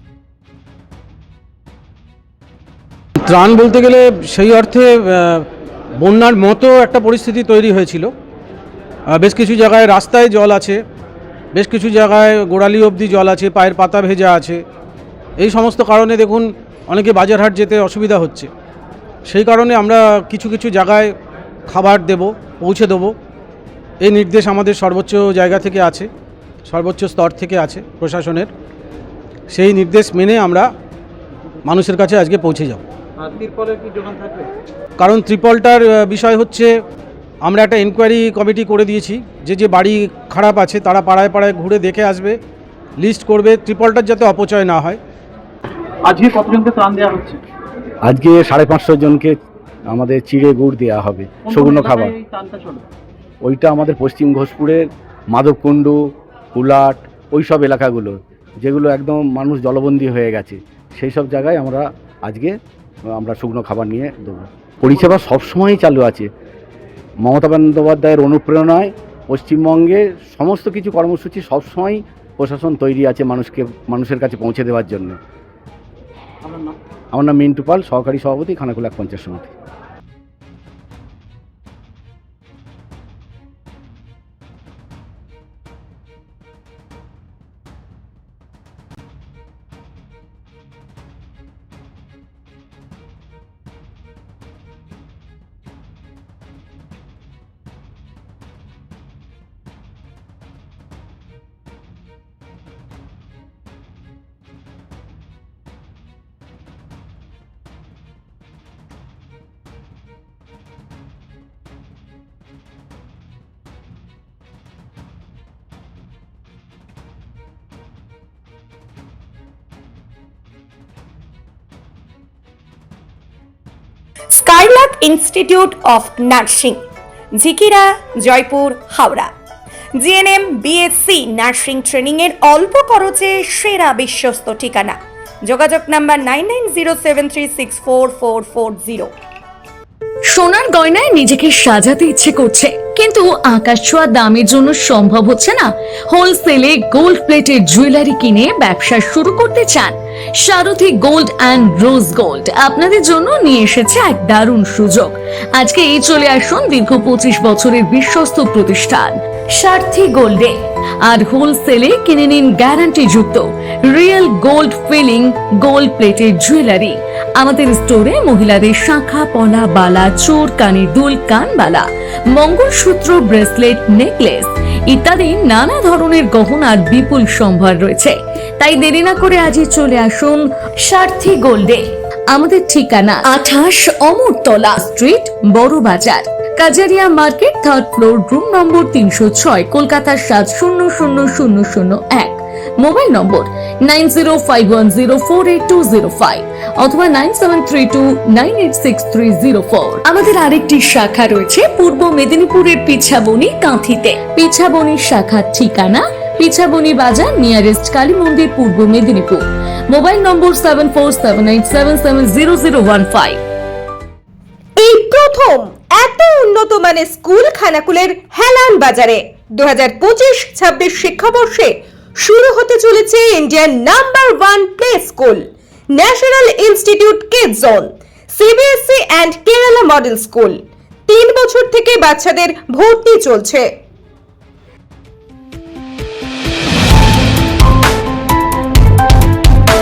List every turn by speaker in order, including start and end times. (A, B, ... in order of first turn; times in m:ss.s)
0:03.2-0:05.5 A
0:06.0-0:08.1 A
0:09.1-0:10.8 A
0:11.5-0:14.6 A
0:15.4-0:18.5 A
0:19.3-0:21.1 A
0:21.7-0:23.1 A
0:24.0-0:26.1 A
0:26.6-0:28.5 A
0:29.5-0:30.7 A
0:31.6-0:32.8 A
0:33.2-0:34.5 B
0:35.0-0:36.7 A
0:37.4-0:42.4 A
0:43.0-0:45.0 A
0:46.1-0:47.4 B
0:48.0-0:49.3 C
0:49.9-0:52.2 C
0:51.5-0:52.8 B
0:53.4-0:56.0 C
0:56.6-1:02.5 C
1:03.1-1:06.3 C
1:07.2-1:15.2 C
1:16.4-1:16.8 B
1:17.1-1:19.5 C
2:04.3-2:06.8 D
2:07.4-2:09.3 D
2:10.0-2:19.1 D
2:20.3-3:33.4 E
3:34.8-3:53.7 F